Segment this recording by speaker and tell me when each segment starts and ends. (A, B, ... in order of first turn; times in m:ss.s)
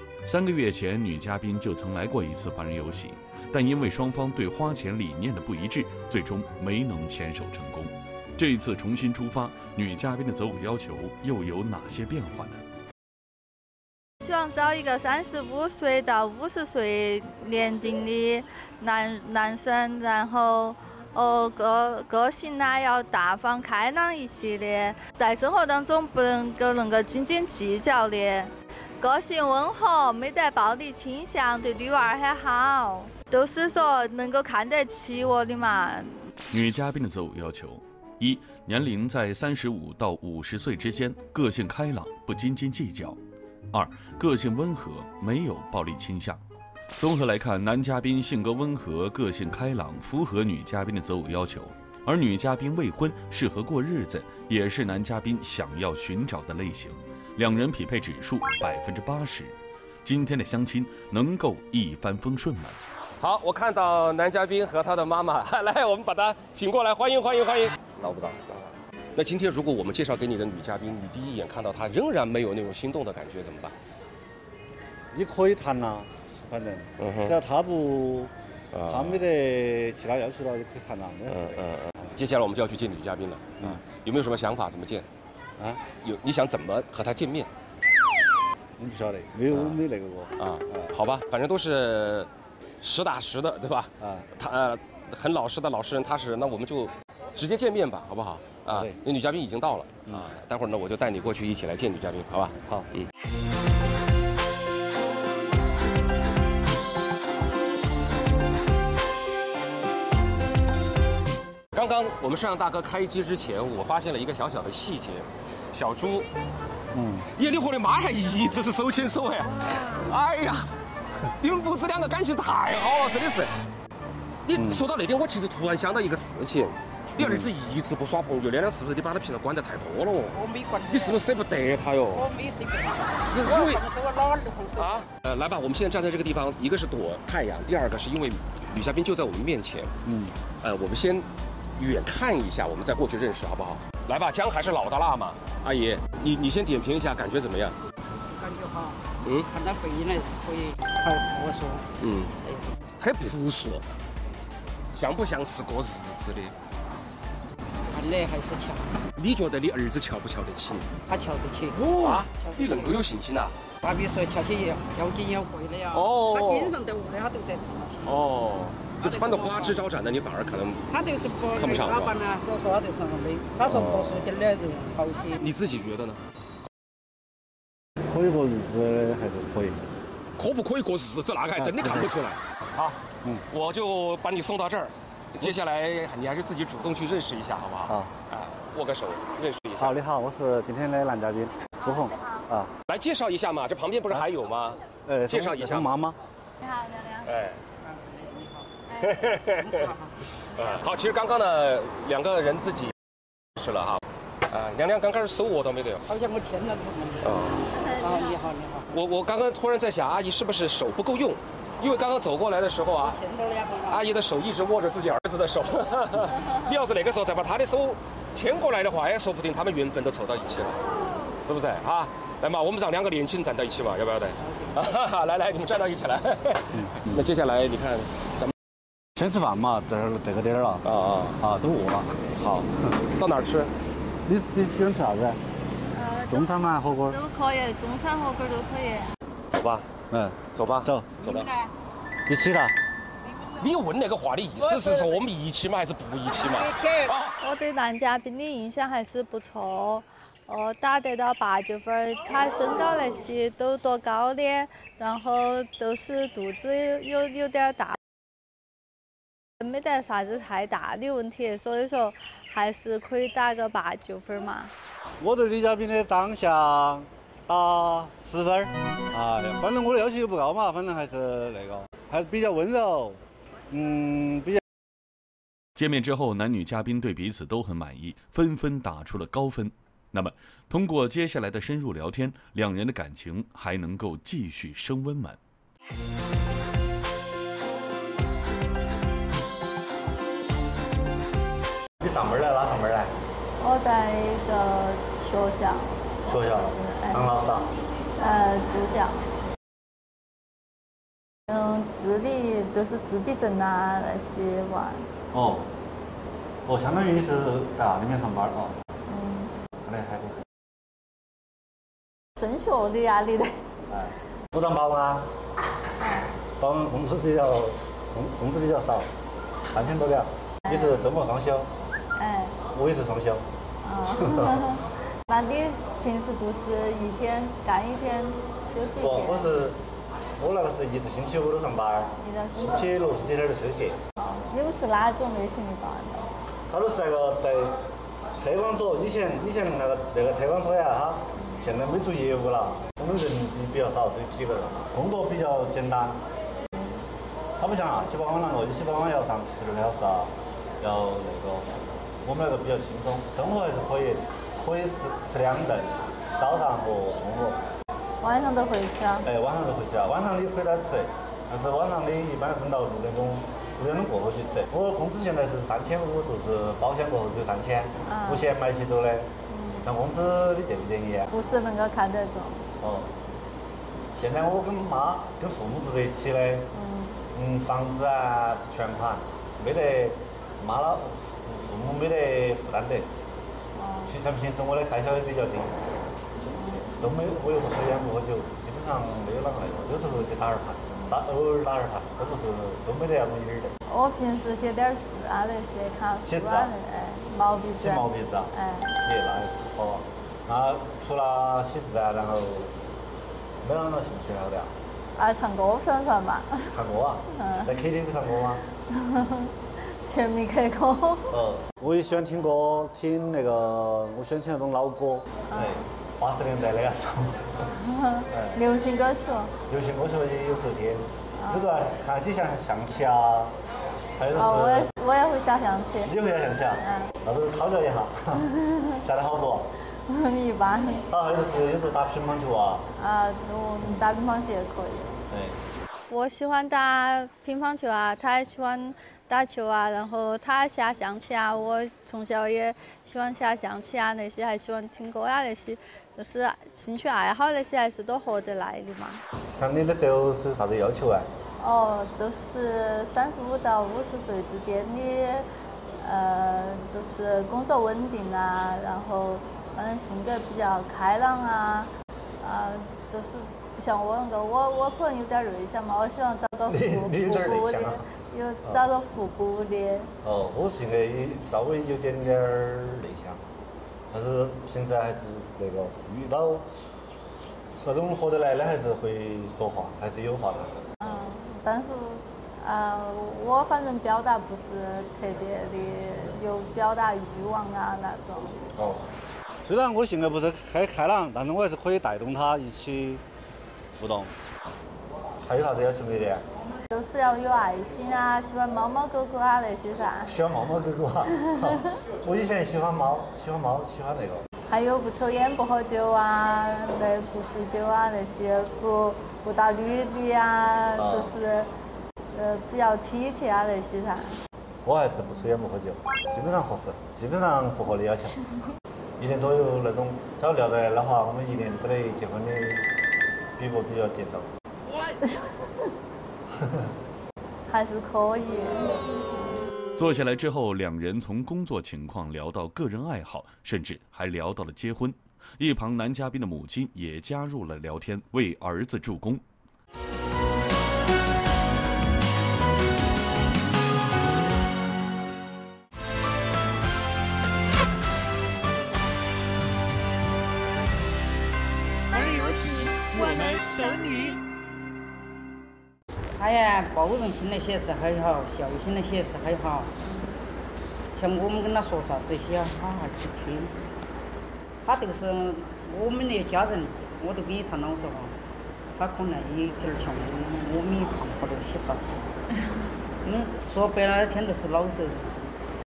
0:00.2-0:12.6 A
0:14.2-0:36.3 B
0:36.5-0:43.2 A
0:43.7-0:46.4 A
0:47.0-1:02.8 A
1:03.2-1:07.9 C
1:08.0-1:08.4 D
1:08.5-1:13.8 C
1:15.1-1:18.3 D
1:17.0-1:17.4 C
1:18.7-1:19.2 C
1:18.9-1:21.6 D
1:21.3-1:25.1 C
1:25.6-1:25.9 D
1:26.0-1:27.5 C
1:28.8-1:30.9 D
1:29.5-1:29.8 C
1:30.4-1:32.3 C
1:32.8-1:43.1 C
1:34.0-1:34.3 D
1:38.7-1:39.0 D
1:51.7-1:56.3 C
1:56.9-1:57.3 D
1:57.4-2:00.7 C
2:01.3-2:03.5 C
2:04.4-2:10.4 C
2:04.5-2:04.8 D
2:07.2-2:07.5 D
2:10.3-2:11.2 E
2:10.9-2:12.3 C
2:12.1-2:15.1 E
2:13.3-2:13.8 C
2:14.8-2:19.9 C
2:20.0-2:20.4 D
2:20.6-2:27.8 C
2:28.3-2:31.9 E
2:32.0-2:32.3 C
2:32.4-2:32.8 E
2:33.0-2:33.9 C
2:34.9-2:36.5 C
2:37.9-2:39.0 E
2:39.2-2:40.9 C
2:41.1-2:43.0 E
2:41.7-2:43.6 C
2:43.8-2:48.2 E
2:45.9-2:46.8 C
2:48.0-2:50.9 C
2:49.0-2:49.8 E
2:50.9-2:55.4 E
2:51.6-2:52.1 C
2:53.7-2:54.2 C
2:53.7-2:54.0 D
2:55.4-2:56.2 C
2:58.1-2:59.8 D
3:00.4-3:03.0 C
3:01.6-3:02.1 D
3:03.5-3:10.0 C
3:07.9-3:08.1 D
3:09.8-3:12.7 D
3:12.1-3:12.4 B
3:12.9-3:15.9 C
3:15.1-3:16.2 D
3:16.6-3:17.3 B
3:17.2-3:17.6 C
3:17.8-3:18.7 E
3:19.0-3:23.0 C
3:19.4-3:20.2 E
3:23.6-3:26.1 C
3:26.1-3:28.9 E
3:27.2-3:27.7 C
3:27.7-3:28.4 B
3:28.9-3:33.2 C
3:33.0-3:34.0 E
3:33.9-3:40.8 C
3:41.4-3:48.5 C
3:44.5-3:44.7 E
3:46.7-3:47.2 D
3:49.2-3:50.8 D
3:50.8-3:51.4 C
3:51.4-3:52.3 D
3:52.4-3:53.7 C
3:54.3-3:55.4 D
3:55.9-3:59.1 B
3:56.3-3:57.2 D
3:59.5-3:59.9 C
4:00.1-4:01.1 D
4:00.5-4:01.5 C
4:01.2-4:01.7 E
4:02.3-4:02.8 D
4:03.6-4:07.3 C
4:04.6-4:05.1 E
4:06.4-4:07.2 E
4:07.4-4:18.0 B
4:19.6-4:24.7 B
4:25.2-4:34.6 D
4:35.8-4:45.4 A
4:52.0-4:53.2 D
4:53.6-4:57.6 B
4:56.3-4:57.7 D
4:58.2-4:59.3 B
5:01.5-5:05.1 B
5:05.3-5:05.7 D
5:06.7-5:08.8 D
5:09.1-5:09.5 B
5:09.8-5:10.5 D
5:12.4-5:13.6 B
5:13.9-5:15.3 D
5:16.0-5:16.4 B
5:16.4-5:19.1 D
5:19.7-5:21.7 D
5:20.7-5:21.0 B
5:22.2-5:22.6 B
5:22.7-5:23.5 D
5:23.8-5:29.6 B
5:24.1-5:24.7 D
5:29.0-5:29.8 D
5:30.4-5:34.0 D
5:32.2-5:32.9 B
5:34.2-5:36.4 B
5:36.7-5:37.8 D
5:38.4-5:46.2 D
5:47.6-5:57.6 D
5:58.2-5:59.3 B
5:59.2-6:09.3 D
6:08.1-6:08.5 B
6:09.5-6:09.9 B
6:09.8-6:11.3 D
6:11.3-6:12.7 B
6:12.8-6:13.1 D
6:14.2-6:16.7 D
6:16.7-6:17.2 B
6:17.3-6:23.1 D
6:23.8-6:24.1 B
6:24.0-6:33.7 D
6:26.6-6:27.0 B
6:33.9-6:39.0 B
6:36.2-6:36.7 D
6:37.5-6:38.5 D
6:39.0-6:42.8 D
6:43.6-6:44.7 D
6:45.2-6:46.7 B
6:46.7-6:48.7 D
6:47.4-6:47.8 B
6:48.9-6:51.4 B
6:51.3-6:57.8 D
6:55.5-6:55.8 B
6:57.8-6:59.6 B
6:58.3-6:58.6 D
6:59.7-7:03.6 D
7:01.4-7:01.8 B
7:04.2-7:04.9 D
7:04.3-7:06.1 B
7:06.0-7:08.5 D
7:06.8-7:07.1 B
7:08.4-7:09.0 B
7:09.0-7:09.7 D
7:10.1-7:11.1 B
7:11.1-7:12.9 D
7:13.0-7:15.2 B
7:15.3-7:15.6 D
7:16.1-7:29.2 B
7:29.5-7:31.3 D
7:31.6-7:35.5 B
7:36.0-7:50.1 B
7:46.7-7:48.1 D
7:50.2-7:53.4 D
7:54.1-7:56.7 D
7:57.8-8:00.8 D
8:01.0-8:08.6 B
8:08.8-8:09.0 D
8:09.6-8:13.2 D
8:13.9-8:14.3 D
8:15.4-8:16.4 D
8:16.9-8:20.3 B
8:20.2-8:24.5 D
8:21.4-8:22.0 B
8:24.7-8:31.7 B
8:31.0-8:31.3 D
8:32.3-8:34.4 B
8:34.8-8:38.5 D
8:39.2-8:42.9 D
8:43.6-8:44.5 D
8:45.0-8:45.9 B
8:46.6-8:46.9 D
8:47.7-8:49.0 B
8:50.0-8:59.4 A
9:12.1-9:14.4 F
9:16.3-9:19.9 E
9:21.2-9:23.7 E
9:24.8-9:28.4 E
9:29.0-9:32.3 E
9:33.2-9:35.6 E